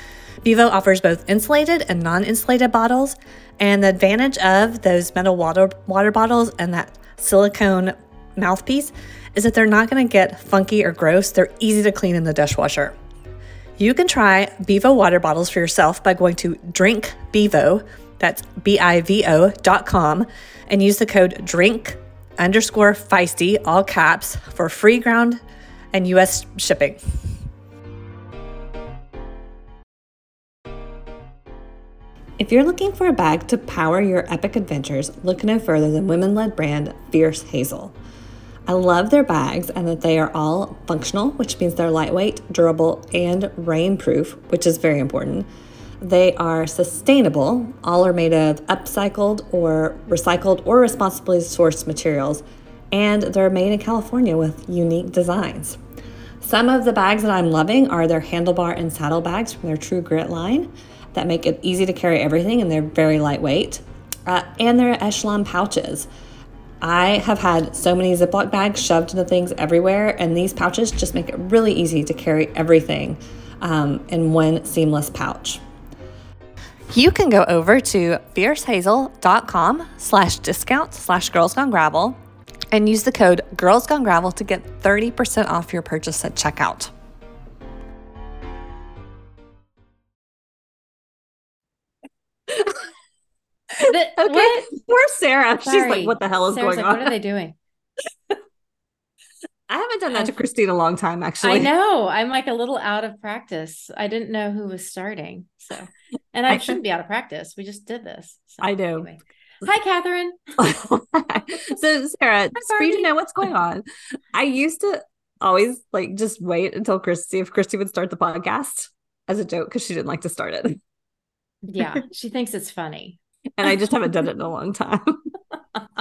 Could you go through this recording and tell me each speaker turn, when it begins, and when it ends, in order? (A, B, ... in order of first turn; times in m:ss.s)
0:00.4-0:12.9 A
0:13.8-0:25.4 A
0:25.9-0:27.0 A
0:32.4-0:37.9 A
0:38.7-0:45.4 A
0:46.0-0:55.8 A
0:56.4-1:06.1 A
1:06.8-1:15.6 A
1:16.9-1:22.2 A
1:22.7-1:26.9 A
1:32.5-1:32.8 B
1:33.8-1:37.1 B
1:33.8-1:34.7 C
1:35.6-1:37.6 C
1:39.7-1:41.7 B
1:41.4-1:50.4 C
1:46.5-1:46.7 B
1:48.6-1:49.1 B
1:50.6-2:00.8 B
1:52.6-1:53.1 C
2:01.6-2:03.2 C
2:03.6-2:05.3 B